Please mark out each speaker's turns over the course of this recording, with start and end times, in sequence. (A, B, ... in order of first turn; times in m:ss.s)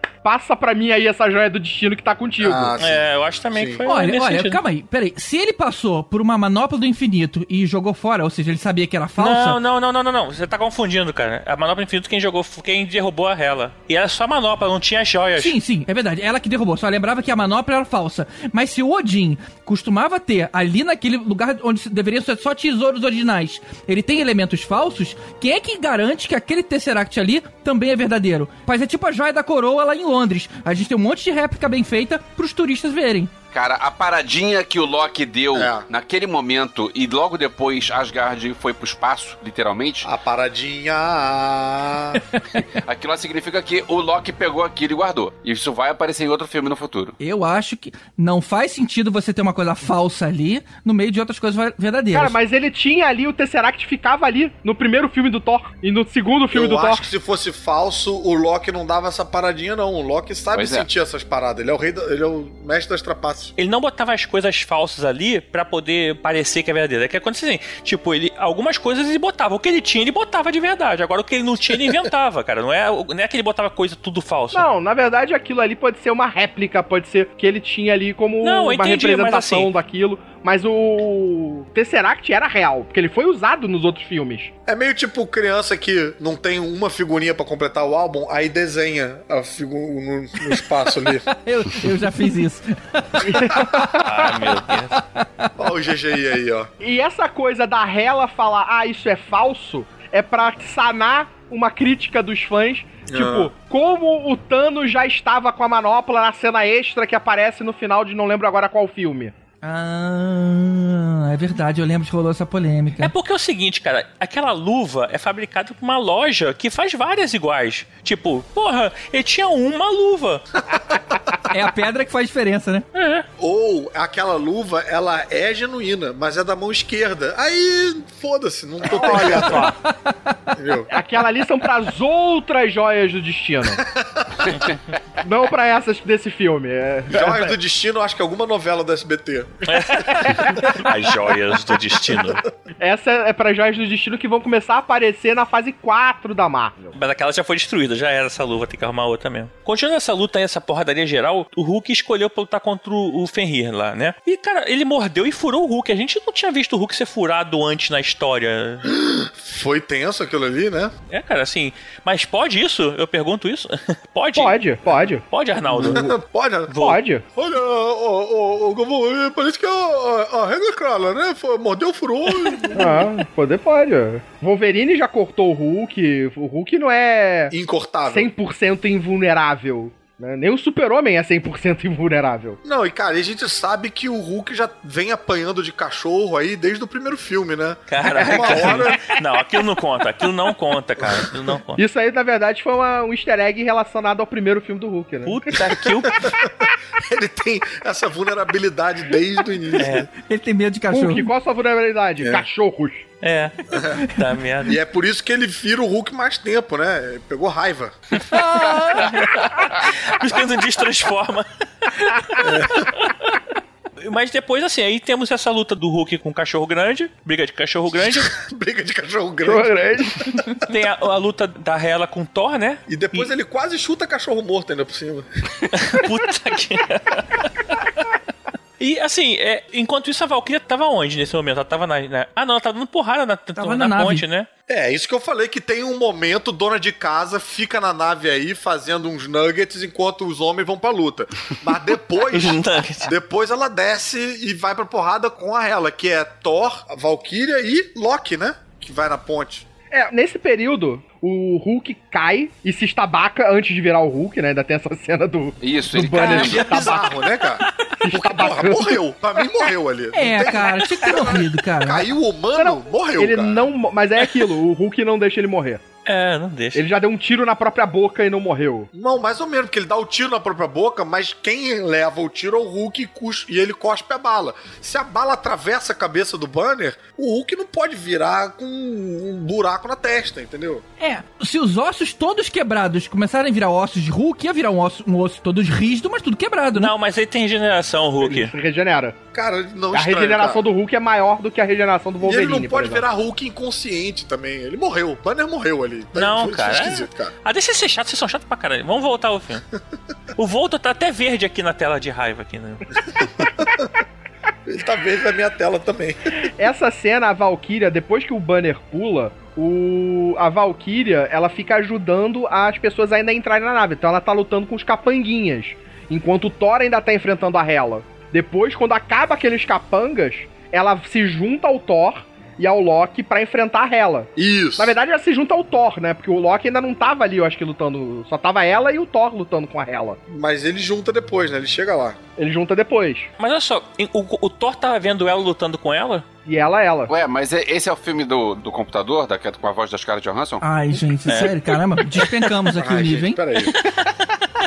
0:00.2-0:02.8 A
0:02.4-0:03.8 B
0:02.8-0:04.6 C
0:03.8-0:09.6 D
0:09.2-0:15.6 C
0:15.4-0:33.3 D
0:33.5-0:40.1 E
0:35.5-0:35.9 B
0:40.0-0:42.2 B
0:42.4-0:42.6 D
0:42.6-0:47.2 E
0:47.2-0:52.4 D
0:52.1-0:57.0 A
0:56.5-1:03.5 B
1:00.5-1:00.9 E
1:03.6-1:14.7 C
1:14.5-1:24.5 A
1:18.4-1:19.7 C
1:24.7-1:31.3 B
1:31.4-1:33.9 D
1:33.2-1:34.3 A
1:34.0-1:35.0 C
1:34.9-1:35.5 D
1:35.6-1:36.7 B
1:36.8-1:49.3 A
1:43.1-1:43.5 B
1:49.6-1:53.1 D
1:53.0-2:00.4 C
2:01.5-2:02.9 D
2:02.9-2:03.3 C
2:03.4-2:09.7 B
2:08.9-2:09.7 A
2:09.3-2:10.5 D
2:10.6-2:10.9 B
2:10.9-2:13.8 A
2:13.6-2:14.7 B
2:15.2-2:17.6 A
2:17.1-2:20.8 B
2:19.7-2:22.4 C
2:22.8-2:27.0 A
2:27.0-2:38.9 C
2:38.8-2:40.9 B
2:41.1-2:44.7 C
2:44.4-2:46.0 A
2:45.3-2:47.0 C
2:45.8-2:46.7 B
2:46.8-2:47.2 A
2:47.4-2:53.1 B
2:52.8-2:57.5 A
2:57.5-2:58.3 B
2:58.1-3:02.6 A
3:02.6-3:09.2 B
3:07.9-3:11.8 C
3:11.8-3:15.6 A
3:15.2-3:16.3 C
3:15.8-3:20.1 B
3:19.8-3:20.1 C
3:20.1-3:21.3 D
3:20.9-3:23.1 A
3:22.2-3:22.4 B
3:23.2-3:24.8 C
3:23.7-3:24.0 B
3:24.6-3:28.2 B
3:28.3-3:29.2 D
3:29.0-3:33.4 C
3:32.4-3:32.9 B
3:34.0-3:38.3 C
3:38.0-3:40.5 B
3:39.4-3:40.5 A
3:40.6-3:43.3 C
3:42.9-3:45.7 B
3:45.7-3:47.8 C
3:48.8-3:54.5 C
3:53.6-3:54.2 D
3:54.7-4:09.7 B
4:02.3-4:03.1 C
4:09.9-4:17.0 A
4:15.6-4:17.0 E
4:16.1-4:23.7 B
4:18.0-4:19.0 A
4:20.1-4:22.1 D
4:22.6-4:25.8 A
4:26.1-4:26.8 C
4:26.7-4:28.9 A
4:28.9-4:40.8 B
4:41.0-4:46.9 D
4:46.8-4:48.5 C
4:48.2-4:49.2 A
4:49.3-4:50.6 B
4:49.9-4:53.0 A
4:52.2-4:57.3 B
4:56.2-4:59.6 C
5:00.4-5:02.9 C
5:03.2-5:03.9 B
5:04.7-5:06.3 B
5:06.6-5:30.2 A
5:24.4-5:25.0 B
5:30.3-5:32.2 B
5:32.4-5:33.3 A
5:33.4-5:36.2 C
5:36.5-5:37.1 A
5:37.1-5:40.6 E
5:40.6-5:43.4 D
5:41.2-5:42.4 C
5:42.8-5:43.8 B